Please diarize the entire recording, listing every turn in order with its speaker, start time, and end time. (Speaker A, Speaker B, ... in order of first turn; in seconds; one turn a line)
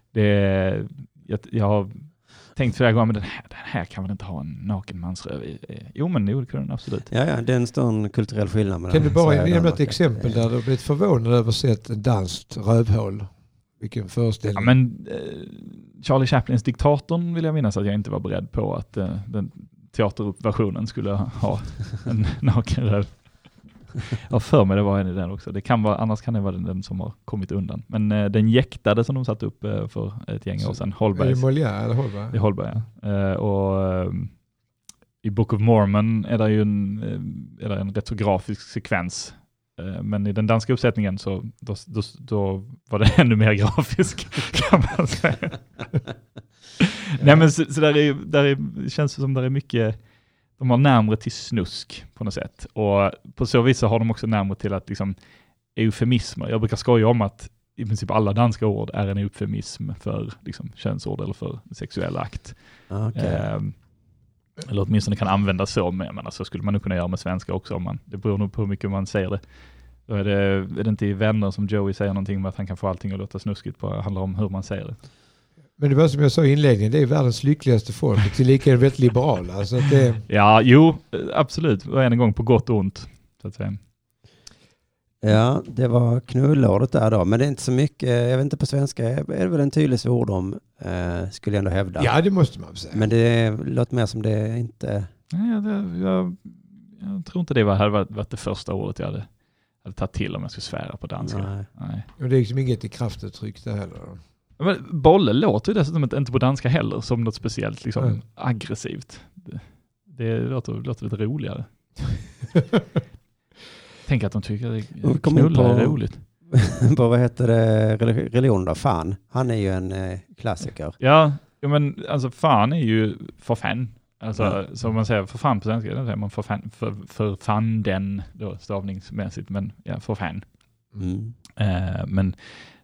Speaker A: 0.1-7.1
Speaker B: 7.1-10.4
Speaker C: 8.9-14.7
Speaker A: 14.6-23.3
Speaker A: 24.1-31.6
Speaker C: 30.6-32.5
Speaker A: 32.3-34.3
Speaker A: 35.2-45.6
Speaker A: 46.8-50.0
Speaker A: 50.6-55.1
Speaker A: 55.7-62.6
Speaker B: 62.9-63.5
Speaker A: 63.1-63.7
Speaker A: 64.6-69.4
Speaker A: 70.1-75.0
Speaker C: 75.8-80.2
Speaker A: 80.3-83.8
Speaker B: 85.2-92.1
Speaker C: 92.0-93.0
Speaker B: 92.9-95.1
Speaker A: 95.3-99.3
Speaker A: 99.8-102.0
Speaker B: 101.2-101.7
Speaker C: 102.2-104.2
Speaker A: 104.6-111.7
Speaker C: 112.5-112.8
Speaker A: 114.0-116.2
Speaker B: 115.0-121.0
Speaker A: 121.0-130.4
Speaker B: 130.9-131.3
Speaker A: 131.6-132.6